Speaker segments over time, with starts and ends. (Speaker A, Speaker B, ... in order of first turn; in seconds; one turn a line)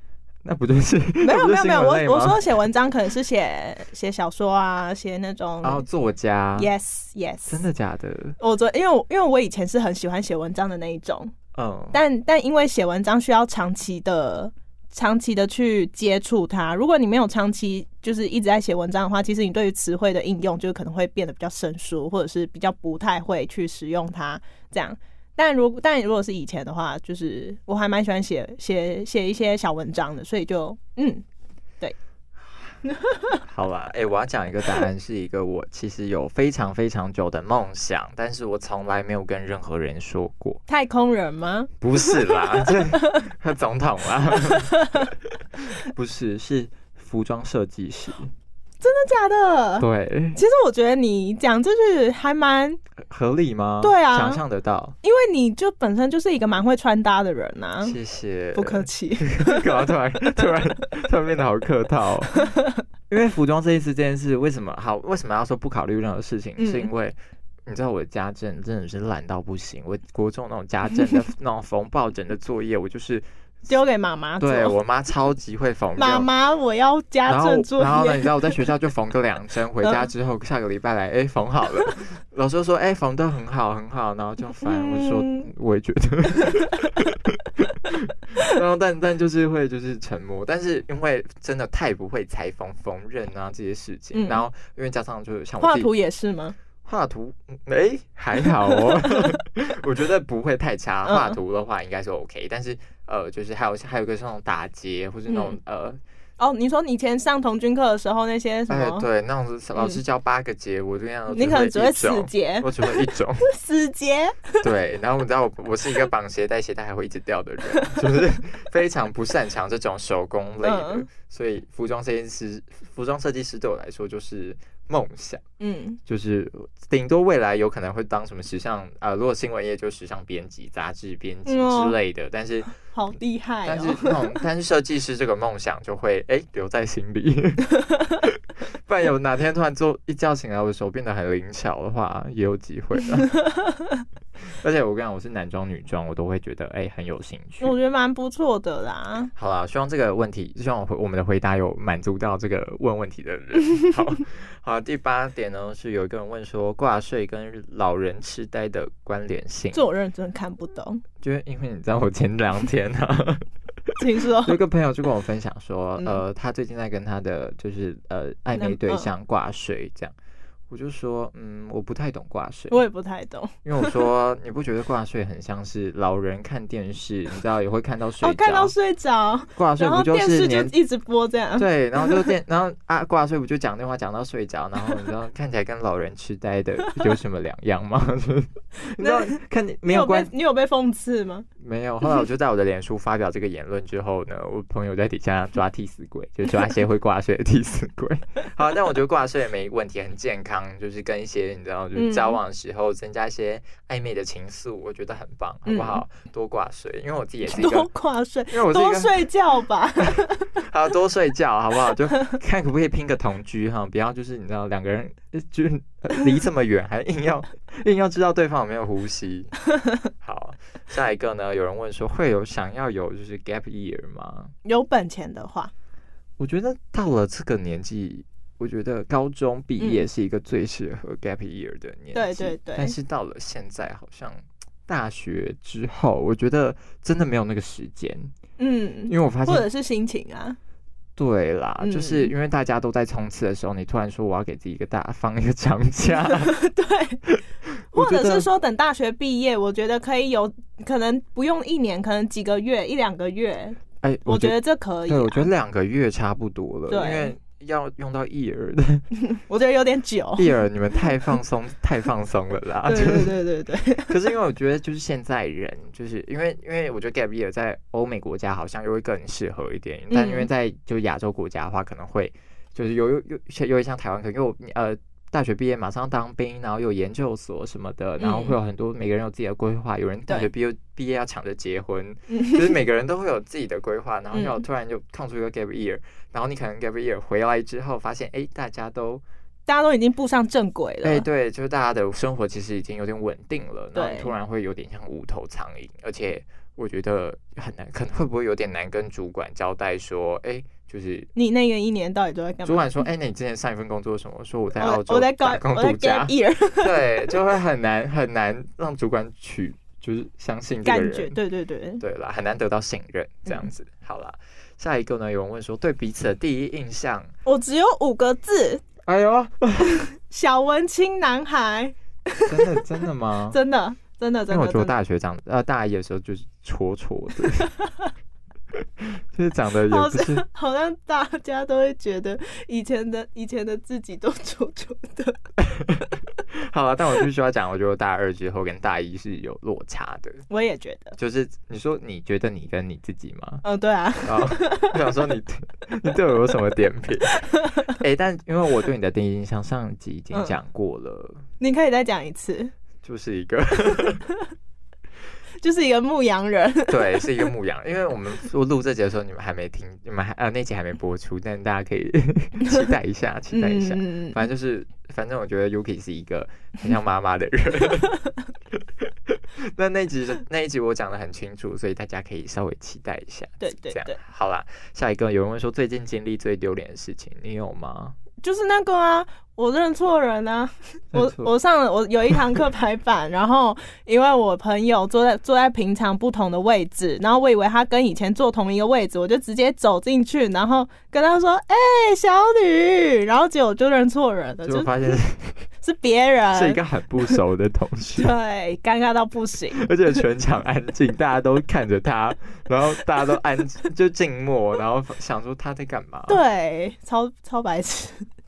Speaker A: 0.4-2.4
Speaker B: 1.2-5.8
Speaker A: 5.6-6.7
Speaker B: 6.6-7.6
Speaker A: 7.5-8.4
Speaker B: 8.4-11.3
Speaker A: 11.5-12.0
Speaker B: 11.9-31.2
Speaker B: 32.9-33.4
Speaker A: 33.5-40.6
Speaker B: 40.7-43.2
Speaker A: 41.8-48.3
Speaker B: 44.5-45.1
Speaker B: 48.8-52.8
Speaker A: 49.8-50.4
Speaker A: 53.0-55.0
Speaker B: 53.8-54.4
Speaker B: 55.0-58.0
Speaker A: 57.8-62.3
Speaker B: 58.5-59.7
Speaker B: 62.3-62.7
Speaker A: 63.1-73.2
Speaker B: 66.6-66.9
Speaker B: 73.7-74.8
Speaker A: 74.4-76.3
Speaker B: 76.0-78.5
Speaker A: 77.3-95.9
Speaker B: 79.8-80.1
Speaker B: 84.6-85.5
Speaker B: 94.1-94.4
Speaker B: 95.6-96.5
Speaker A: 96.8-106.0
Speaker B: 98.8-99.3
Speaker B: 101.0-101.4
Speaker B: 105.3-105.6
Speaker B: 106.4-109.1
Speaker A: 108.7-113.5
Speaker B: 111.3-114.6
Speaker A: 114.6-125.4
Speaker B: 120.6-121.1
Speaker B: 125.6-126.0
Speaker A: 126.0-132.7
Speaker B: 131.5-131.9
Speaker B: 132.8-134.4
Speaker A: 133.7-143.3
Speaker B: 143.2-143.8
Speaker A: 144.5-147.7
Speaker B: 147.6-149.3
Speaker A: 149.4-159.8
Speaker B: 159.7-161.0
Speaker A: 161.2-170.2
Speaker B: 164.0-164.6
Speaker B: 168.5-169.1
Speaker A: 170.7-172.8
Speaker B: 172.7-174.0
Speaker A: 173.7-178.7
Speaker B: 178.2-182.2
Speaker A: 179.6-180.8
Speaker A: 181.6-190.3
Speaker B: 189.0-191.5
Speaker A: 191.6-207.9
Speaker B: 201.9-202.4
Speaker B: 205.7-206.0
Speaker B: 207.5-210.6
Speaker A: 208.5-209.3
Speaker A: 210.6-219.5
Speaker A: 220.2-224.5
Speaker B: 224.7-225.7
Speaker A: 226.4-238.3
Speaker B: 229.8-230.1
Speaker B: 232.1-232.9
Speaker B: 238.6-240.6
Speaker A: 239.1-239.7
Speaker A: 241.2-246.6
Speaker B: 241.8-242.3
Speaker B: 246.2-247.2
Speaker A: 247.3-248.5
Speaker B: 247.9-255.5
Speaker A: 254.0-259.1
Speaker B: 256.9-257.3
Speaker B: 259.3-260.6
Speaker A: 260.4-263.4
Speaker B: 262.9-264.2
Speaker A: 264.1-289.2
Speaker B: 270.1-270.5
Speaker B: 278.2-278.6
Speaker B: 282.3-282.7
Speaker B: 284.3-284.6
Speaker B: 289.7-291.2
Speaker A: 291.0-301.3
Speaker B: 293.9-294.3
Speaker B: 301.4-302.9
Speaker A: 302.6-311.4
Speaker B: 304.8-307.3
Speaker B: 310.9-312.0
Speaker A: 312.0-317.3
Speaker B: 317.4-318.8
Speaker A: 319.1-320.0
Speaker B: 319.9-322.8
Speaker A: 322.5-323.6
Speaker B: 323.5-324.9
Speaker A: 324.5-327.7
Speaker B: 327.8-328.1
Speaker A: 328.8-330.4
Speaker B: 329.9-335.4
Speaker A: 335.6-340.4
Speaker B: 340.5-341.2
Speaker A: 341.2-343.6
Speaker B: 343.6-345.0
Speaker A: 344.2-351.4
Speaker B: 347.4-347.8
Speaker B: 351.6-352.7
Speaker A: 353.0-354.2
Speaker B: 355.6-357.5
Speaker A: 356.9-368.1
Speaker B: 363.5-364.4
Speaker A: 368.7-378.2
Speaker B: 373.6-374.2
Speaker B: 378.4-394.9
Speaker A: 381.1-381.5
Speaker A: 394.6-395.6
Speaker B: 395.8-397.3
Speaker A: 396.5-398.3
Speaker B: 398.2-399.9
Speaker A: 399.8-406.4
Speaker B: 406.3-408.3